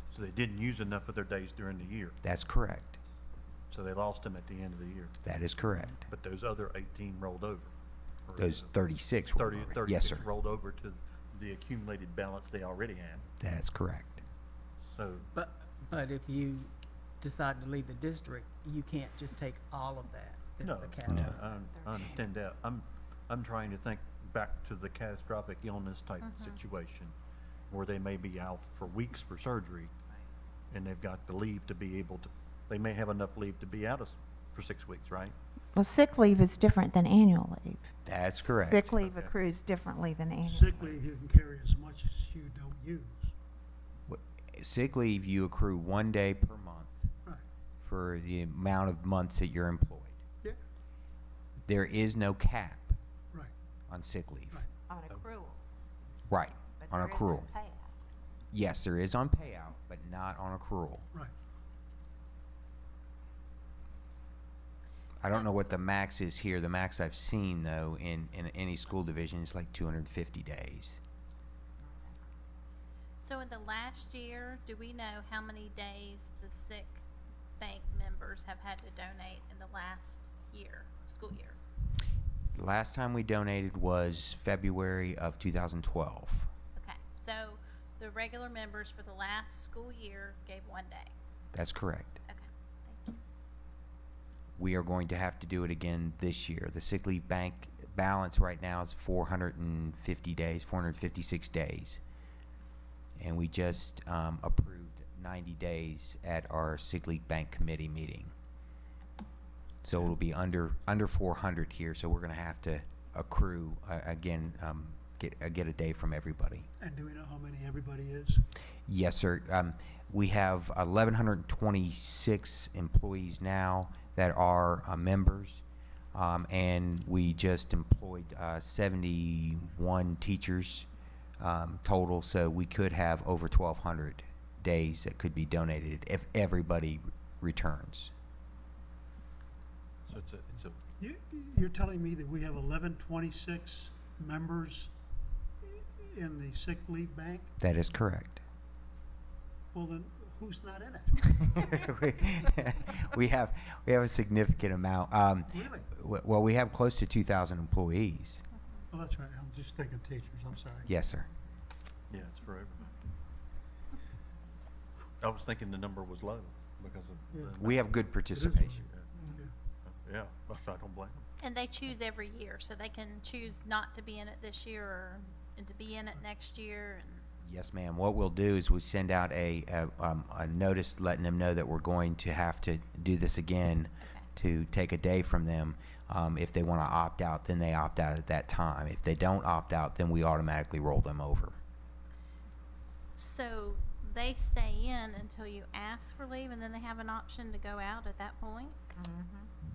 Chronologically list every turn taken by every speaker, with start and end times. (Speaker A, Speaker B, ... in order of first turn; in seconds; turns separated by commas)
Speaker A: 0.1-2.2, Speaker B: 2.2-3.0, Speaker A: 3.7-5.1, Speaker B: 5.2-6.0, Speaker A: 6.1-7.7, Speaker A: 8.2-8.7, Speaker B: 8.4-10.2, Speaker A: 9.3-13.3, Speaker B: 13.4-14.2, Speaker A: 14.9-15.2, Speaker C: 15.3-21.5, Speaker A: 20.6-27.1, Speaker B: 21.1-21.4, Speaker D: 26.2-26.6, Speaker A: 27.7-29.9, Speaker A: 30.7-35.3, Speaker E: 35.7-37.9, Speaker B: 38.0-39.0, Speaker E: 38.4-41.0, Speaker A: 38.9-39.3, Speaker F: 40.5-43.3, Speaker B: 44.1-47.1, Speaker B: 47.8-50.2, Speaker B: 51.7-53.0, Speaker B: 53.9-54.6, Speaker E: 54.9-55.6, Speaker B: 56.3-57.5, Speaker E: 56.8-57.9, Speaker B: 58.5-61.0, Speaker B: 65.2-71.0, Speaker D: 65.3-65.6, Speaker D: 73.2-77.0, Speaker D: 77.6-81.6, Speaker B: 82.5-86.5, Speaker D: 86.7-91.1, Speaker B: 91.5-92.2, Speaker D: 92.3-93.2, Speaker B: 94.6-102.0, Speaker B: 103.2-108.3, Speaker B: 109.8-116.7, Speaker F: 116.8-118.4, Speaker B: 118.9-125.6, Speaker B: 126.1-130.9, Speaker B: 131.4-138.1, Speaker A: 140.1-140.8, Speaker F: 141.0-144.9, Speaker F: 145.6-147.5, Speaker B: 147.6-148.4, Speaker F: 149.7-151.8, Speaker B: 151.5-158.4, Speaker F: 155.5-155.8, Speaker F: 158.9-160.9, Speaker B: 160.8-161.3, Speaker A: 162.1-162.9, Speaker A: 165.2-167.9, Speaker B: 167.6-168.9, Speaker F: 168.3-169.5, Speaker A: 169.8-171.2, Speaker D: 171.4-177.2, Speaker B: 177.4-191.6, Speaker D: 193.2-198.8, Speaker E: 199.0-199.4